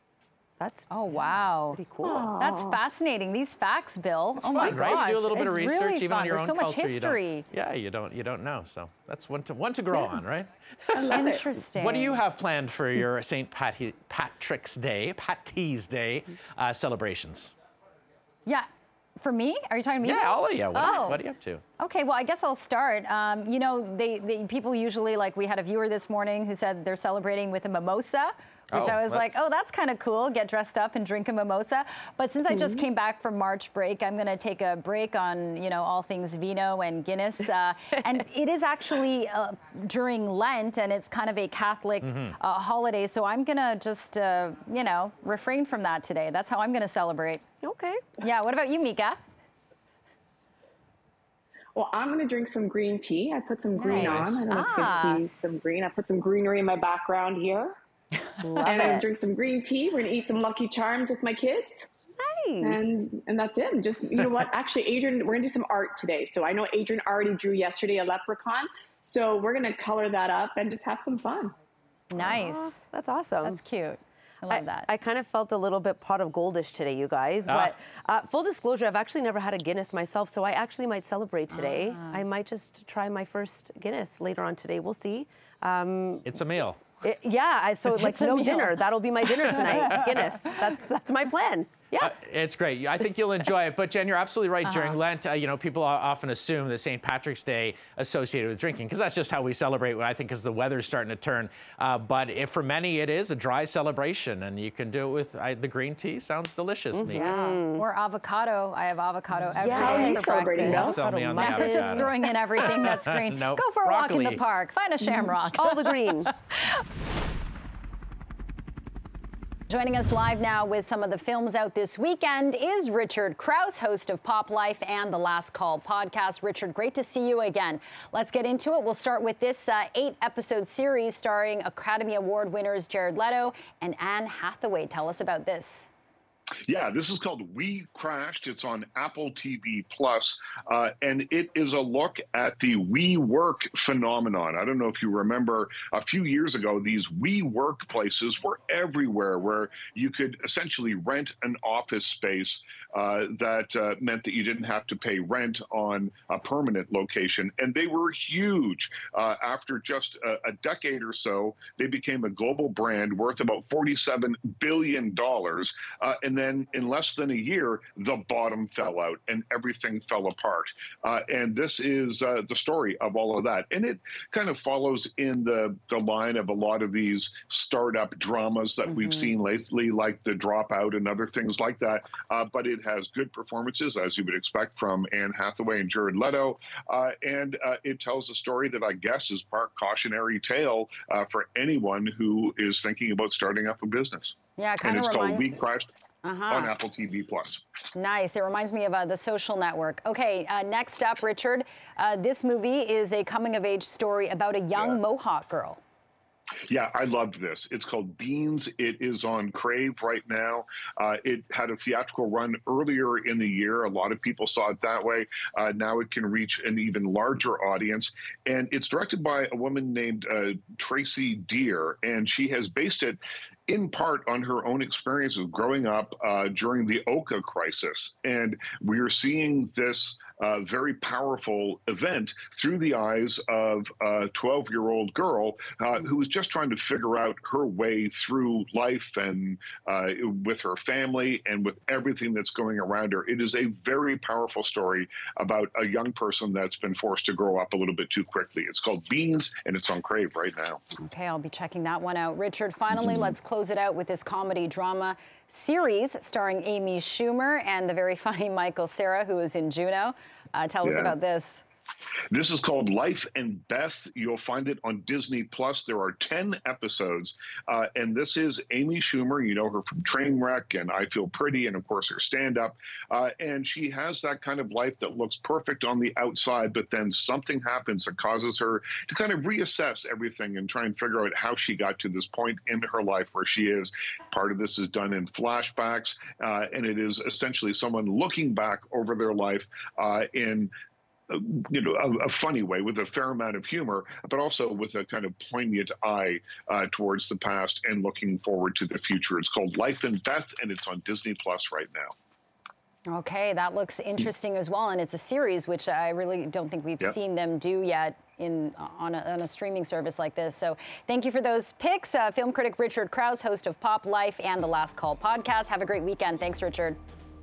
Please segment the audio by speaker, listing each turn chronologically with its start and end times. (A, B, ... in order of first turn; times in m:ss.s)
0:00.6-0:01.0 A
0:00.9-0:01.8 B
0:01.7-0:02.4 A
0:02.0-0:02.8 C
0:02.4-0:07.4 B
0:04.4-0:17.5 D
0:10.9-0:11.5 C
0:11.1-0:12.2 B
0:19.2-0:21.2 B
0:20.0-0:21.6 D
0:20.8-0:21.1 A
0:21.8-0:47.4 B
0:28.7-0:29.5 D
0:42.0-0:42.3 D
0:47.6-0:48.0 A
0:48.2-0:49.2 B
0:51.8-0:57.8 C
0:53.8-0:55.6 B
0:53.9-0:54.4 D
0:58.3-0:59.0 B
0:58.4-0:59.1 A
0:58.6-1:01.9 C
1:02.2-1:02.8 A
1:02.6-1:11.5 C
1:12.1-1:12.8 B
1:12.2-1:13.6 A
1:13.4-1:14.9 B
1:14.5-1:26.3 A
1:17.5-1:17.7 D
1:21.5-1:22.2 B
1:26.2-1:26.8 D
1:27.0-1:32.2 A
1:27.9-1:30.6 B
1:29.6-1:30.1 D
1:32.0-1:47.3 D
1:34.6-1:35.0 B
1:46.9-1:47.9 A
1:47.1-1:56.4 B
1:49.5-1:52.3 A
1:49.8-1:51.1 C
1:50.6-1:54.4 D
1:55.5-1:56.3 A
1:59.7-2:15.9 B
2:16.7-3:15.9 E
2:58.9-2:59.3 B
3:14.6-3:15.6 B
3:16.2-3:16.7 B
3:16.5-3:17.7 E
3:18.0-3:25.8 B
3:26.7-4:10.8 E
4:11.0-4:21.6 B
4:13.0-4:13.3 E
4:20.8-4:21.2 E
4:22.3-4:50.7 E
4:51.3-5:02.1 E
5:03.1-5:17.0 B